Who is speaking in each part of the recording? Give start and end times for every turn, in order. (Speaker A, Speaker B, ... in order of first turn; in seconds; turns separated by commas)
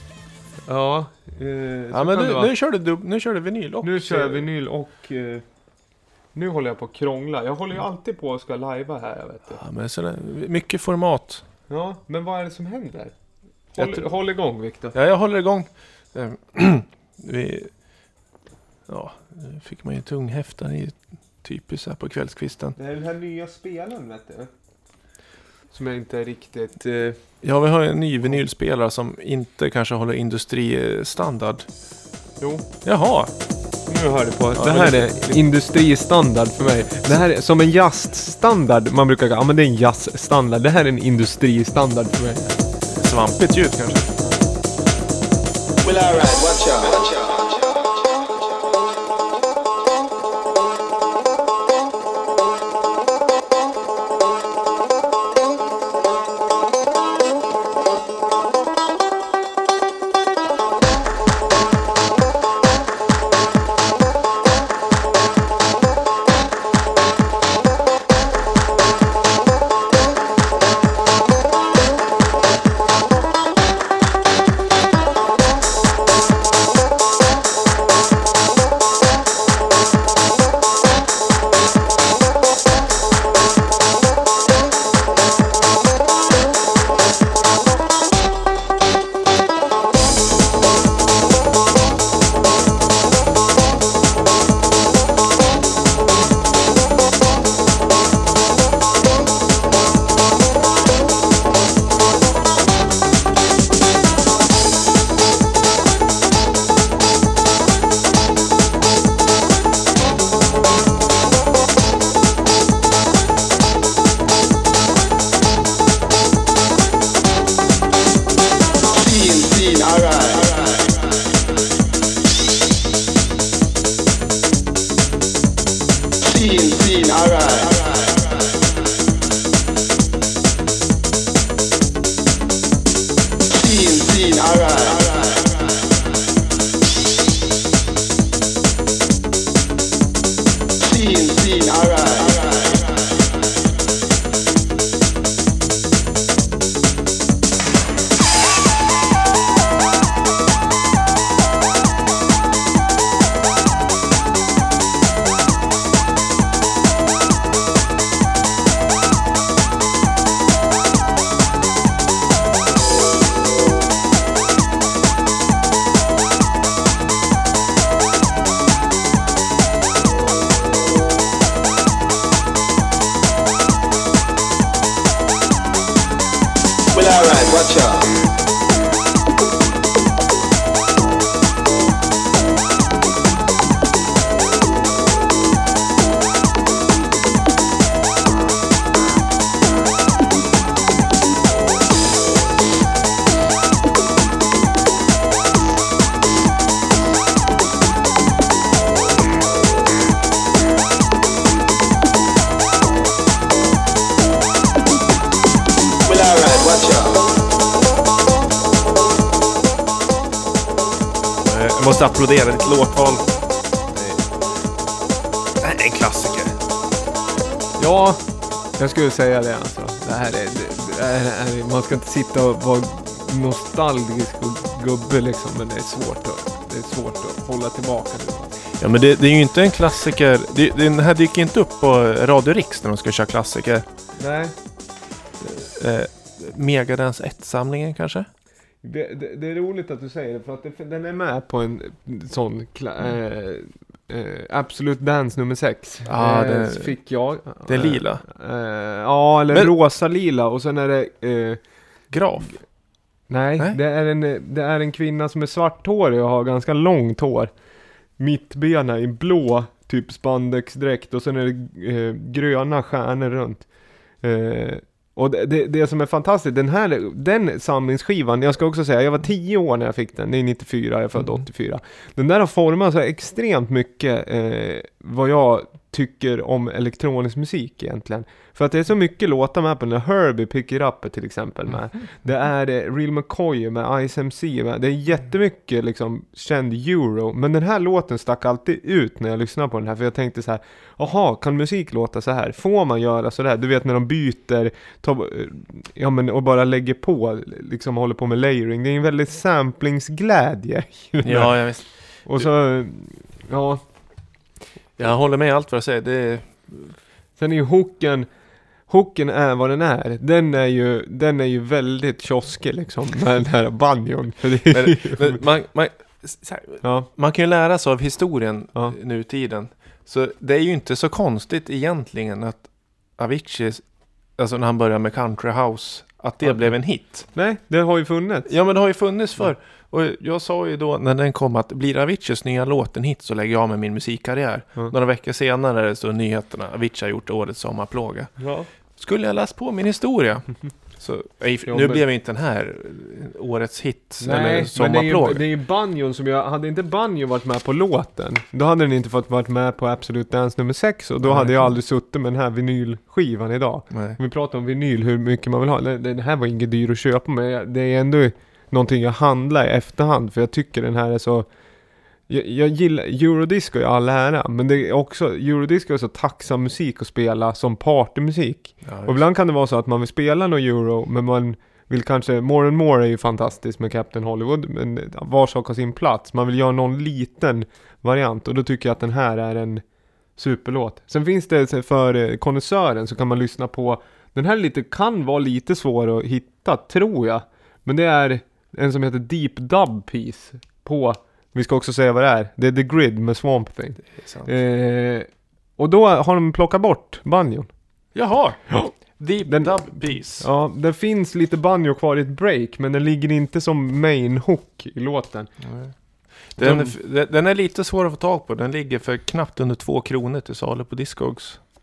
Speaker A: 0.7-2.5, Speaker B: 1.9-4.5, Speaker A: 3.8-9.6, Speaker B: 9.5-11.4, Speaker A: 11.7-14.9, Speaker B: 13.8-18.2, Speaker B: 18.9-22.8, Speaker A: 22.8-24.5, Speaker A: 25.7-27.4, Speaker B: 27.4-31.7, Speaker A: 32.4-32.7, Speaker B: 32.8-33.3, Speaker A: 33.9-42.6, Speaker B: 34.5-35.6, Speaker B: 36.6-37.3, Speaker B: 42.8-44.2, Speaker C: 45.8-47.8, Speaker C: 118.9-120.9, Speaker C: 126.2-128.1, Speaker C: 133.5-135.5, Speaker C: 140.8-142.8, Speaker C: 176.9-178.1, Speaker C: 206.1-207.2, Speaker B: 211.4-214.2, Speaker B: 215.6-216.6, Speaker A: 217.8-218.2, Speaker A: 218.7-228.6, Speaker B: 228.8-233.8, Speaker A: 234.2-234.5, Speaker B: 235.4-238.3, Speaker A: 238.8-251.6, Speaker B: 246.0-248.3, Speaker B: 249.5-249.7, Speaker B: 252.1-252.8, Speaker A: 253.3-257.5, Speaker A: 258.2-303.8, Speaker B: 301.2-302.5, Speaker B: 305.0-306.9, Speaker A: 307.4-308.3, Speaker A: 308.9-315.4, Speaker B: 314.7-327.3, Speaker A: 316.8-317.1, Speaker A: 326.4-328.5, Speaker B: 328.5-345.5, Speaker A: 338.4-338.7, Speaker A: 341.6-342.0, Speaker A: 344.2-361.5, Speaker B: 351.2-351.8, Speaker B: 353.9-354.2, Speaker A: 362.3-379.8, Speaker B: 368.8-369.2, Speaker A: 380.4-397.7, Speaker B: 394.1-394.5, Speaker B: 398.1-400.5, Speaker A: 398.7-405.5, Speaker B: 405.6-411.6, Speaker A: 406.6-406.9